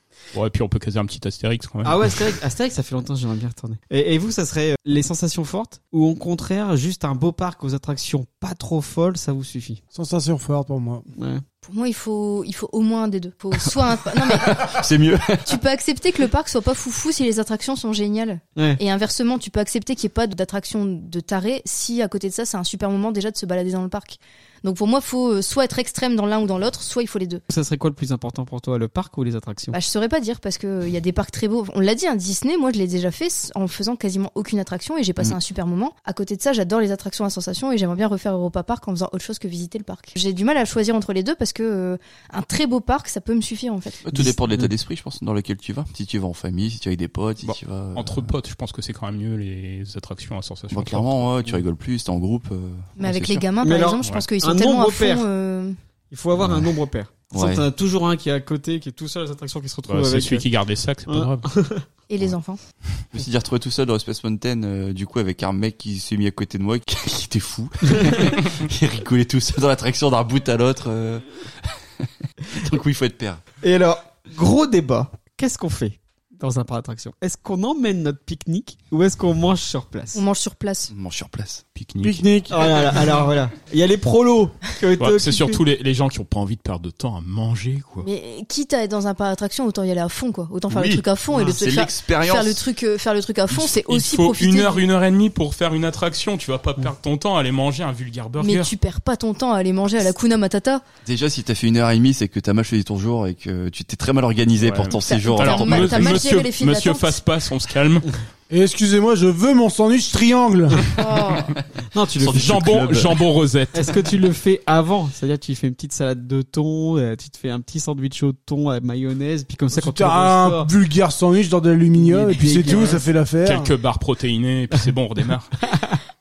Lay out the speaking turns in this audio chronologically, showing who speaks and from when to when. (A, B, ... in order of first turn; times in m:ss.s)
0:00.3-0:02.1 A
0:01.8-0:09.8 B
0:09.9-0:11.1 C
0:11.2-0:11.4 B
0:11.6-0:14.7 D
0:14.3-0:15.6 E
0:15.4-0:27.4 D
0:27.5-0:29.7 B
0:29.7-0:44.0 D
0:44.0-0:48.3 E
0:44.1-0:44.7 B
0:47.9-0:51.3 A
0:50.7-0:53.4 E
0:53.0-0:55.7 D
0:53.6-0:55.3 B
0:56.1-1:00.4 B
0:56.4-0:56.7 E
0:57.3-0:57.6 E
0:59.9-1:01.5 A
1:01.1-1:01.8 B
1:02.1-1:02.6 D
1:03.1-1:13.4 E
1:07.9-1:08.2 B
1:13.6-1:20.2 B
1:20.1-1:20.9 D
1:20.9-1:21.6 E
1:21.7-1:23.0 A
1:22.0-1:22.7 C
1:22.5-1:25.6 B
1:25.0-1:28.1 A
1:28.0-1:34.8 D
1:30.7-1:32.6 E
1:33.5-1:38.7 A
1:38.4-1:40.8 D
1:41.0-1:46.2 E
1:44.6-1:48.1 A
1:45.0-1:47.2 D
1:48.5-1:50.8 C
1:50.9-1:51.5 D
1:51.9-1:52.6 B
1:52.2-1:53.2 E
1:52.3-1:54.0 A
1:53.7-2:00.7 B
1:59.7-2:03.7 C
2:02.0-2:03.1 B
2:03.4-2:05.5 A
2:05.6-2:06.0 B